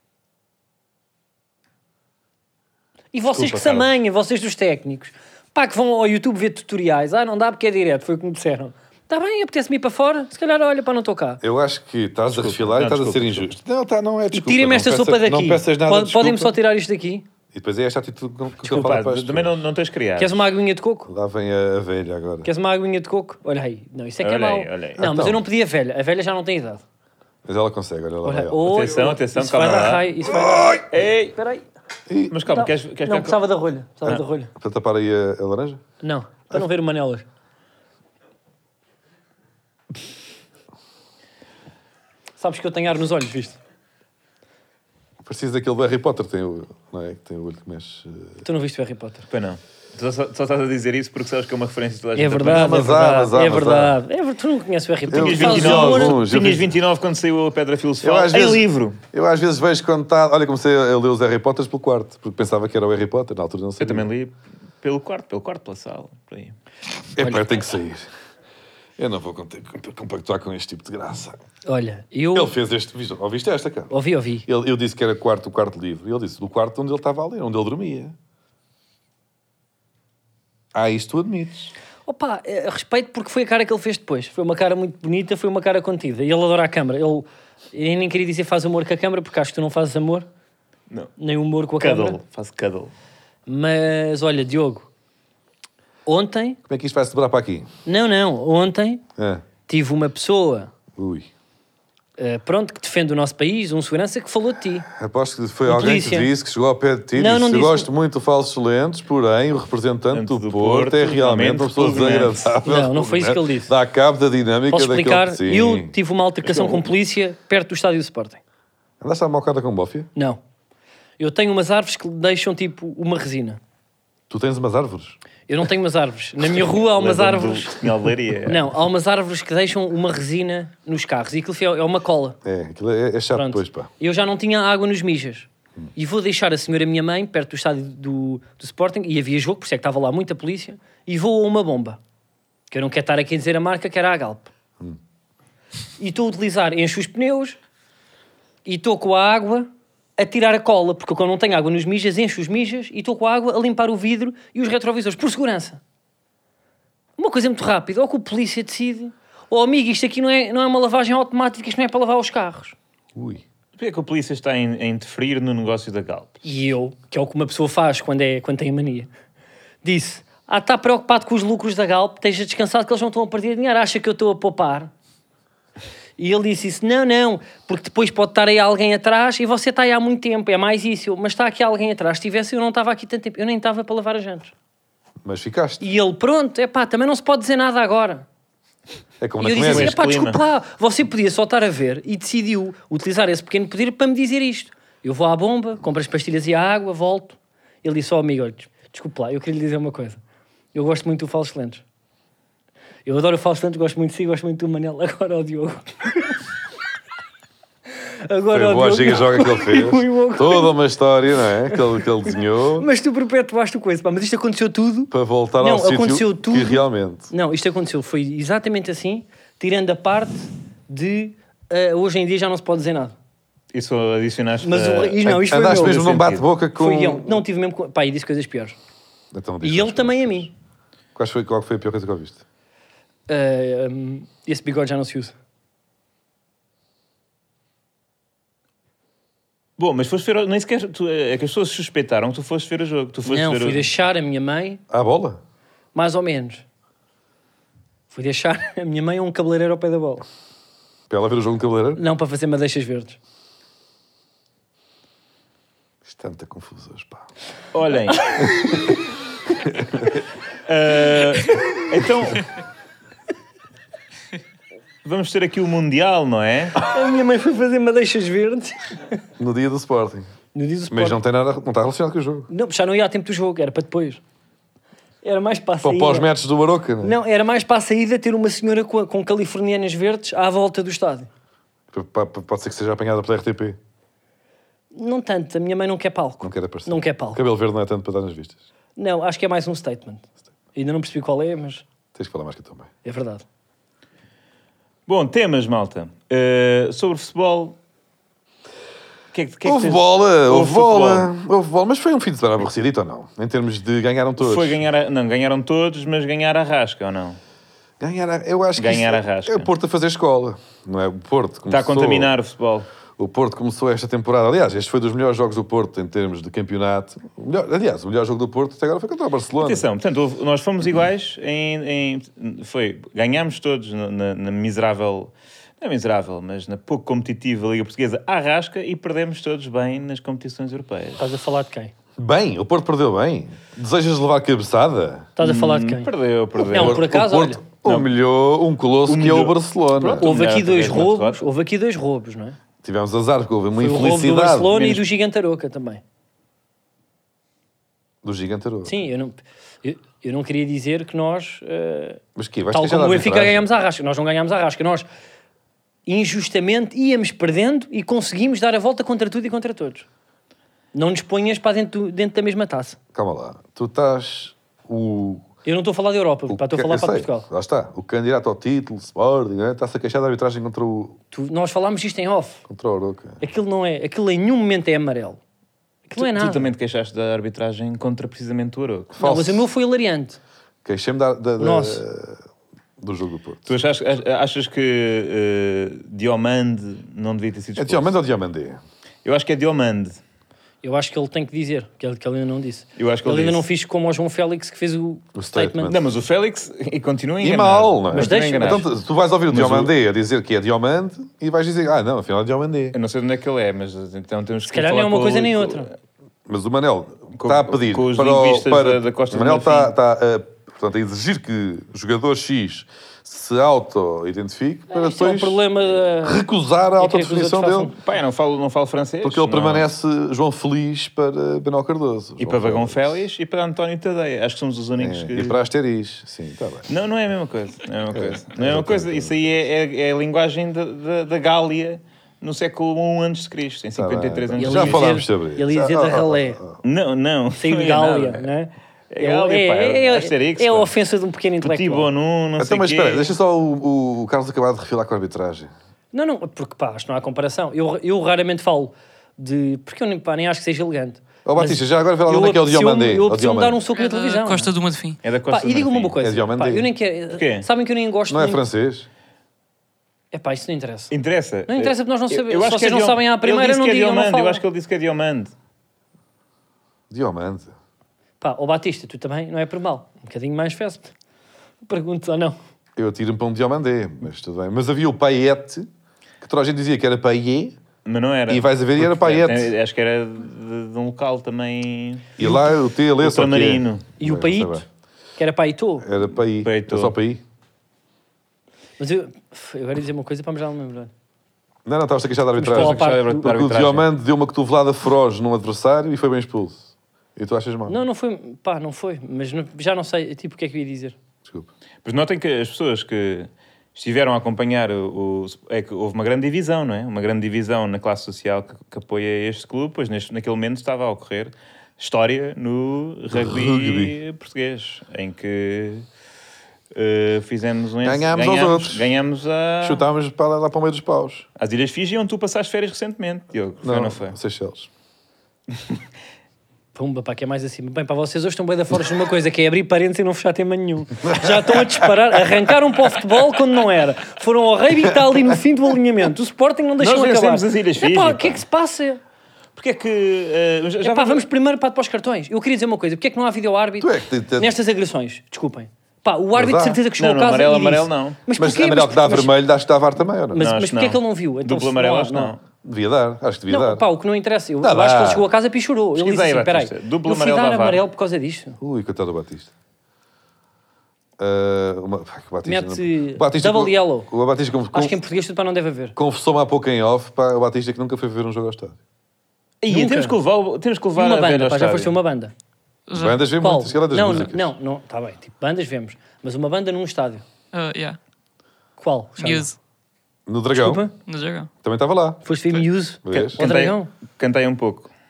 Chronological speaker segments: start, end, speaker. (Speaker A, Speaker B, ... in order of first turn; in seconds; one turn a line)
Speaker A: 3.1-11.4
Speaker B: 3.3-3.9
Speaker B: 11.4-16.6
Speaker C: 12.3-13.5
Speaker A: 14.3-17.3
Speaker B: 17.5-19.6
Speaker C: 18.6-20.4
Speaker A: 20.2-21.1
Speaker B: 21.1-22.5
Speaker A: 22.4-26.8
Speaker C: 24.2-25.0
Speaker B: 24.9-25.4
Speaker B: 27.4-28.7
Speaker A: 28.2-30.8
Speaker C: 28.6-30.1
Speaker B: 30.2-30.9
Speaker C: 30.9-31.4
Speaker A: 31.4-31.6
Speaker B: 32.1-32.4
Speaker C: 32.3-33.4
Speaker A: 32.5-34.5
Speaker B: 34.0-35.8
Speaker A: 36.0-37.2
Speaker A: 42.4-43.6
Speaker B: 45.2-48.4
Speaker A: 48.4-49.2
Speaker C: 49.3-52.8
Speaker A: 52.1-56.1
Speaker B: 52.5-54.0
Speaker B: 55.1-56.7
Speaker C: 55.1-59.0
Speaker B: 58.0-64.1
Speaker C: 63.8-66.5
Speaker B: 67.2-68.1
Speaker A: 67.2-67.4
Speaker B: 69.0-71.4
Speaker A: 71.7-72.5
Speaker B: 72.3-73.9
Speaker A: 73.9-74.5
Speaker B: 74.4-78.1
Speaker B: 80.7-81.7
Speaker A: 82.0-90.3
Speaker A: 91.2-92.2
Speaker C: 91.8-92.9
Speaker A: 93.5-94.9
Speaker A: 96.0-96.6
Speaker B: 96.7-97.7
Speaker A: 97.8-99.0
Speaker B: 99.2-99.4
Speaker A: 99.7-100.7
Speaker B: 100.9-101.3
Speaker A: 102.2-104.9
Speaker B: 104.9-115.9
Speaker A: 105.7-106.3
Speaker A: 107.2-107.9
Speaker C: 110.1-112.5
Speaker A: 112.6-113.7
Speaker A: 114.7-118.4
Speaker C: 116.5-116.8
Speaker B: 119.0-120.1
Speaker A: 121.2-123.6
Speaker B: 124.3-125.2
Speaker A: 125.5-127.8
Speaker C: 126.4-128.7
Speaker A: 128.5-132.4
Speaker B: 132.4-133.9
Speaker A: 133.3-142.0
Speaker A: 142.7-144.5
Speaker A: 146.0-147.6
Speaker A: 148.6-155.8
Speaker A: 157.2-162.8
Speaker B: 163.1-163.4
Speaker C: 163.8-166.4
Speaker A: 166.4-169.1
Speaker A: 169.8-174.9
Speaker A: 176.2-184.5
Speaker B: 185.2-185.8
Speaker A: 185.8-188.2
Speaker B: 189.2-189.9
Speaker A: 189.4-200.2
Speaker C: 189.6-190.4
Speaker A: 200.7-201.8
Speaker A: 203.0-206.3
Speaker A: 208.2-210.7
Speaker B: 208.5-212.9
Speaker A: 211.7-216.8
Speaker B: 215.1-217.3
Speaker A: 217.3-223.1
Speaker C: 223.7-225.2
Speaker A: 224.6-228.8
Speaker B: 225.2-227.4
Speaker C: 226.0-226.4
Speaker B: 229.3-230.5
Speaker A: 229.6-230.5
Speaker B: 231.1-232.4
Speaker A: 233.3-235.3
Speaker C: 239.8-243.9
Speaker A: 243.2-244.8
Speaker B: 244.9-245.4
Speaker A: 245.9-246.6
Speaker A: 248.1-250.2
Speaker B: 251.1-252.0
Speaker A: 251.9-253.2
Speaker B: 256.0-257.3
Speaker C: 257.7-258.4
Speaker B: 258.4-258.9
Speaker B: 259.6-260.2
Speaker C: 260.6-262.5
Speaker C: 265.0-266.8
Speaker A: 266.8-269.2
Speaker B: 269.4-270.3
Speaker A: 270.5-271.2
Speaker B: 270.9-272.5
Speaker A: 272.5-274.2
Speaker A: 275.2-276.3
Speaker B: 275.8-277.1
Speaker A: 277.0-281.3
Speaker B: 281.9-283.8
Speaker A: 284.9-287.4
Speaker B: 286.4-288.6
Speaker A: 288.9-290.2
Speaker A: 290.7-291.8
Speaker B: 292.1-292.9
Speaker A: 293.0-293.4
Speaker C: 295.1-297.8
Speaker C: 299.3-301.3
Speaker B: 299.6-304.8
Speaker C: 304.4-307.4
Speaker B: 308.0-312.3
Speaker C: 308.8-309.7
Speaker C: 311.7-312.9
Speaker B: 313.2-319.8
Speaker C: 319.6-331.2
Speaker A: 331.2-331.9
Speaker B: 332.2-335.3
Speaker A: 335.4-336.1
Speaker C: 335.4-337.0
Speaker B: 336.6-340.3
Speaker A: 336.7-337.6
Speaker C: 339.1-341.4
Speaker A: 340.2-342.6
Speaker B: 342.8-345.0
Speaker A: 343.8-346.0
Speaker B: 348.2-349.1
Speaker A: 348.9-355.1
Speaker B: 352.4-353.6
Speaker A: 356.1-360.1
Speaker A: 360.9-363.0
Speaker B: 363.1-365.5
Speaker A: 365.6-367.4
Speaker B: 366.5-371.2
Speaker A: 371.3-372.6
Speaker B: 372.7-373.4
Speaker A: 373.4-375.4
Speaker A: 376.1-376.7
Speaker C: 376.2-379.1
Speaker B: 379.1-379.7
Speaker A: 379.2-380.4
Speaker B: 380.8-382.4
Speaker A: 381.6-382.0
Speaker B: 383.0-383.8
Speaker C: 383.6-388.1
Speaker B: 387.8-388.8
Speaker C: 389.2-390.2
Speaker A: 390.8-395.9
Speaker C: 393.0-393.6
Speaker B: 395.3-396.1
Speaker C: 395.9-398.9
Speaker B: 397.4-402.9
Speaker A: 398.1-398.9
Speaker C: 399.5-399.9
Speaker C: 402.9-405.9
Speaker A: 404.7-405.9
Speaker B: 406.5-415.6
Speaker C: 407.4-409.9
Speaker A: 414.9-416.4
Speaker B: 416.2-417.9
Speaker A: 417.0-417.9
Speaker C: 418.0-419.9
Speaker B: 419.2-423.2
Speaker C: 422.4-425.6
Speaker B: 425.0-426.9
Speaker C: 426.9-435.1
Speaker B: 428.1-429.6
Speaker B: 433.9-436.8
Speaker A: 434.6-436.6
Speaker C: 436.8-438.5
Speaker A: 437.6-442.1
Speaker C: 439.1-440.9
Speaker C: 441.6-443.3
Speaker B: 442.6-445.7
Speaker A: 446.1-454.7
Speaker B: 451.4-453.8
Speaker D: 453.9-455.2
Speaker C: 455.2-456.1
Speaker A: 455.5-458.6
Speaker B: 456.2-456.9
Speaker C: 457.3-457.7
Speaker B: 458.3-459.1
Speaker A: 460.3-461.1
Speaker C: 461.1-465.5
Speaker A: 461.7-464.6
Speaker B: 467.1-467.7
Speaker A: 468.4-471.1
Speaker A: 471.8-472.6
Speaker B: 472.9-475.9
Speaker B: 476.4-477.8
Speaker C: 478.1-482.6
Speaker B: 478.5-479.7
Speaker B: 482.4-484.8
Speaker C: 483.2-484.1
Speaker A: 484.2-484.8
Speaker A: 485.4-486.1
Speaker B: 486.0-487.4
Speaker C: 486.6-487.1
Speaker A: 489.0-491.1
Speaker B: 491.9-498.0
Speaker A: 492.6-493.4
Speaker C: 492.6-494.1
Speaker A: 497.9-501.1
Speaker C: 502.0-516.0
Speaker B: 513.3-514.1
Speaker C: 516.9-520.0
Speaker B: 518.0-519.1
Speaker B: 519.8-521.5
Speaker C: 521.6-524.4
Speaker B: 523.8-524.9
Speaker A: 526.9-539.2
Speaker B: 531.2-531.8
Speaker B: 535.1-535.6
Speaker C: 537.0-538.6
Speaker C: 539.8-541.4
Speaker A: 541.0-549.5
Speaker B: 544.0-544.7
Speaker B: 546.5-547.0
Speaker C: 547.2-548.4
Speaker B: 548.6-550.6
Speaker A: 550.5-552.5
Speaker C: 550.6-552.6
Speaker B: 552.8-554.0
Speaker A: 553.7-558.8
Speaker B: 554.8-555.5
Speaker C: 556.1-558.0
Speaker B: 558.8-559.7
Speaker B: 561.4-565.2
Speaker A: 562.6-564.3
Speaker A: 564.9-566.1
Speaker B: 566.1-569.0
Speaker C: 569.8-572.1
Speaker A: 569.9-570.4
Speaker A: 571.1-572.5
Speaker D: 573.1-573.4
Speaker B: 573.1-574.7
Speaker A: 573.6-577.4
Speaker D: 577.7-578.2
Speaker A: 579.0-579.7
Speaker D: 579.4-579.8
Speaker B: 580.5-581.0
Speaker A: 580.8-581.1
Speaker D: 581.2-581.7
Speaker B: 581.8-582.4
Speaker A: 582.4-584.1
Speaker C: 582.7-585.1
Speaker B: 583.2-583.6